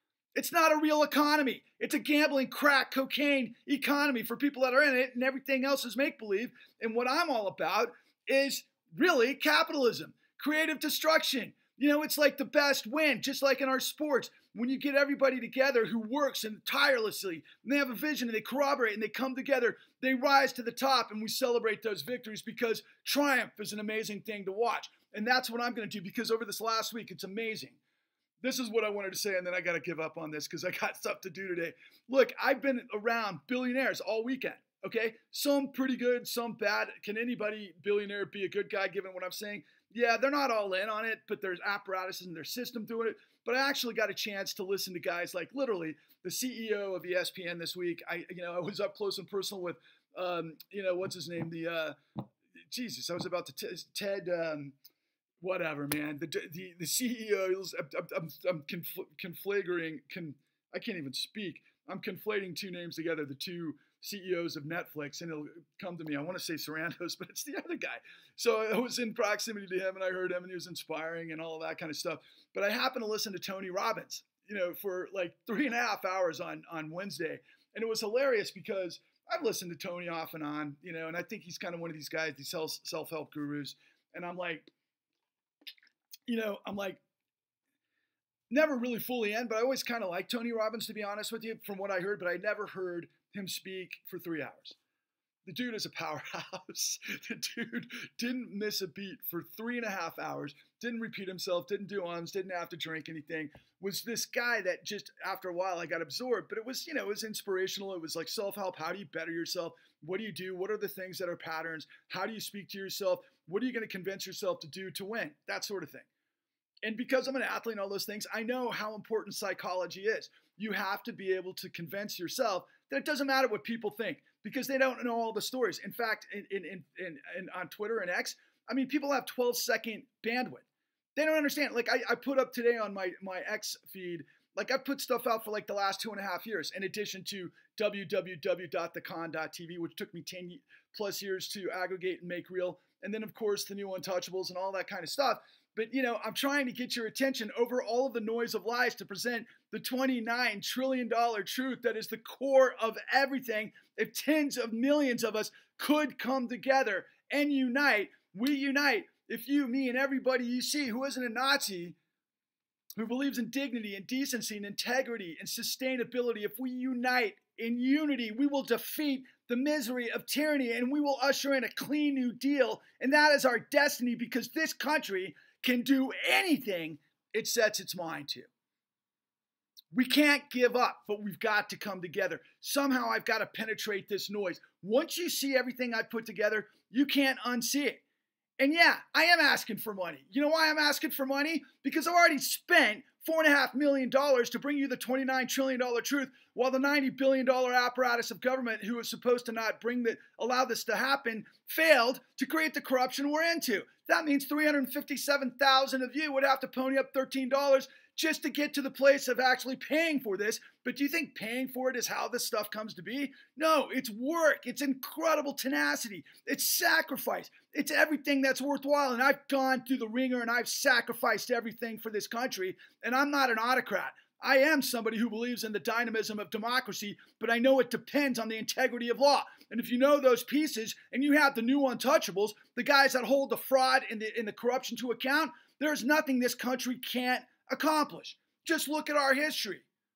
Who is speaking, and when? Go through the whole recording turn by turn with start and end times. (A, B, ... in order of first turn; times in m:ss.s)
0:00.3-0:27.8 A
0:28.4-0:52.0 A
0:52.6-0:54.7 A
0:55.4-1:24.7 A
1:26.3-1:27.0 A
1:28.5-1:34.8 A
1:35.4-1:56.1 A
1:56.8-2:42.0 A
2:43.0-2:58.5 A
2:59.9-3:08.0 A
3:08.6-3:59.9 A